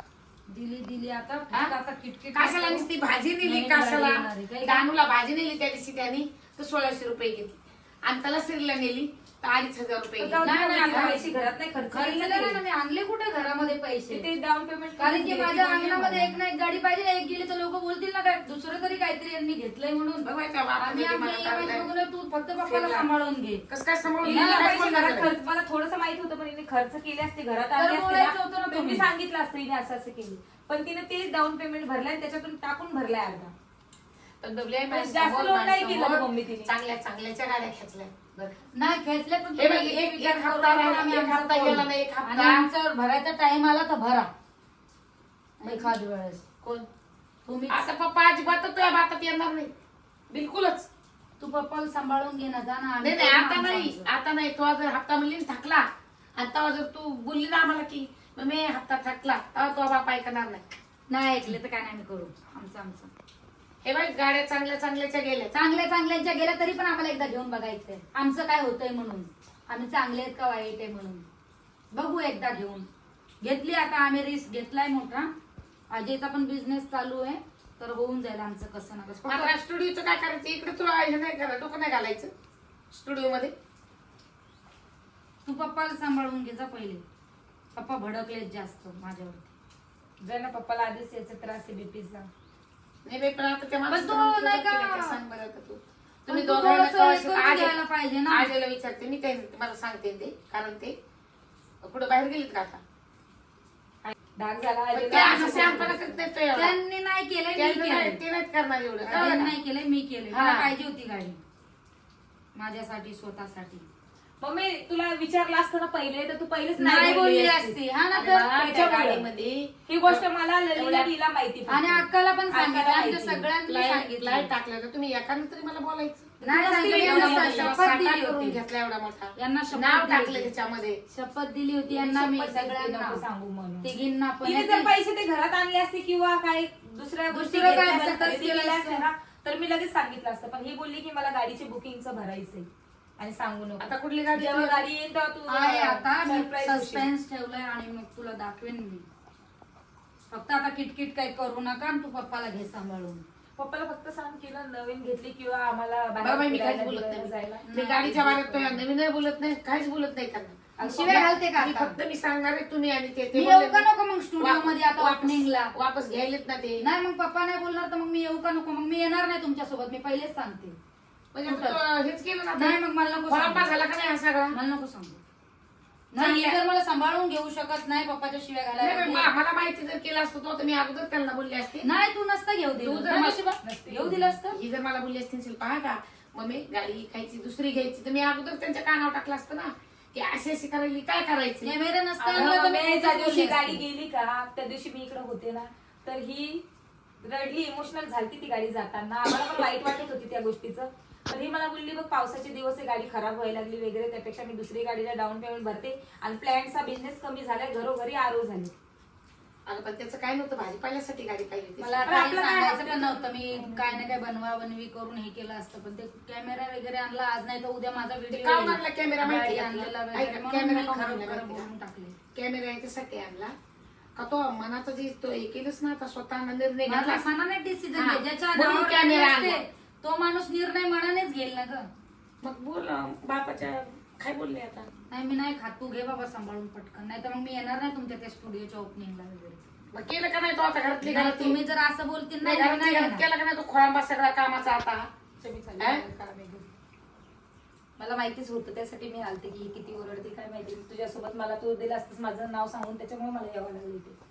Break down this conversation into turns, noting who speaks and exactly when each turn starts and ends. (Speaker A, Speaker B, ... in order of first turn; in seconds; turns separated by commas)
Speaker A: 0.5-2.9, Speaker B: 2.3-11.1, Speaker A: 3.4-4.8, Speaker C: 10.2-12.6, Speaker A: 10.4-11.4, Speaker A: 11.9-14.3, Speaker C: 14.1-16.3, Speaker A: 15.0-23.6, Speaker B: 20.2-21.9, Speaker B: 22.6-23.0, Speaker B: 23.7-25.3, Speaker A: 24.2-25.1, Speaker C: 24.2-33.5, Speaker A: 27.8-29.1, Speaker B: 34.4-38.1, Speaker C: 34.9-36.7, Speaker A: 38.4-44.3, Speaker B: 39.6-42.6, Speaker B: 45.6-45.9, Speaker A: 45.7-46.4, Speaker B: 46.6-46.9, Speaker A: 47.5-47.9, Speaker B: 47.7-49.7, Speaker B: 50.3-50.9, Speaker A: 51.4-54.1, Speaker B: 53.0-55.9, Speaker B: 56.4-60.6, Speaker A: 61.1-63.1, Speaker B: 63.8-65.5, Speaker A: 65.5-71.2, Speaker A: 71.9-72.8, Speaker A: 73.4-75.3, Speaker A: 75.9-79.5, Speaker B: 79.3-82.3, Speaker B: 82.9-83.5, Speaker A: 85.4-87.0, Speaker A: 87.7-89.5, Speaker C: 90.2-92.3, Speaker B: 93.0-97.8, Speaker A: 93.9-95.2, Speaker A: 96.3-98.5, Speaker B: 98.3-100.9, Speaker B: 101.8-102.8, Speaker C: 104.0-106.2, Speaker B: 104.9-106.8, Speaker A: 105.2-105.9, Speaker A: 106.5-108.2, Speaker B: 107.5-109.5, Speaker A: 109.0-111.4, Speaker B: 110.3-110.7, Speaker A: 112.5-113.8, Speaker C: 114.4-117.8, Speaker A: 116.8-118.6, Speaker B: 118.1-120.2, Speaker C: 118.5-119.3, Speaker C: 119.8-123.5, Speaker B: 120.7-121.1, Speaker A: 121.7-124.5, Speaker B: 123.7-131.0, Speaker A: 126.4-128.6, Speaker C: 126.4-127.8, Speaker A: 129.3-130.5, Speaker A: 131.1-133.2, Speaker C: 131.9-147.1, Speaker A: 133.8-134.9, Speaker A: 137.3-139.0, Speaker B: 143.8-144.8, Speaker A: 145.5-149.1, Speaker A: 150.3-153.2, Speaker C: 153.6-158.5, Speaker B: 156.2-163.8, Speaker A: 157.7-158.7, Speaker C: 160.8-161.4, Speaker A: 160.8-162.0, Speaker A: 163.3-165.7, Speaker B: 164.4-166.8, Speaker A: 166.8-170.8, Speaker B: 171.3-172.8, Speaker A: 171.4-171.8, Speaker A: 172.5-173.7, Speaker B: 173.3-174.6, Speaker A: 174.5-175.2, Speaker A: 176.1-179.3, Speaker B: 176.2-176.6, Speaker B: 178.8-181.8, Speaker A: 181.8-184.6, Speaker B: 182.8-183.5, Speaker C: 183.6-184.3, Speaker B: 184.5-192.7, Speaker A: 191.6-193.8, Speaker C: 192.3-196.6, Speaker C: 197.2-208.7, Speaker B: 209.7-212.2, Speaker A: 211.8-222.2, Speaker C: 212.0-214.0, Speaker B: 218.3-221.7, Speaker B: 222.3-223.5, Speaker B: 224.2-227.2, Speaker A: 226.8-231.9, Speaker B: 227.9-229.6, Speaker B: 232.4-234.9, Speaker A: 235.1-239.6, Speaker B: 239.9-241.6, Speaker A: 241.0-243.2, Speaker B: 242.4-245.1, Speaker C: 245.4-246.7, Speaker B: 245.8-246.0, Speaker C: 248.0-254.2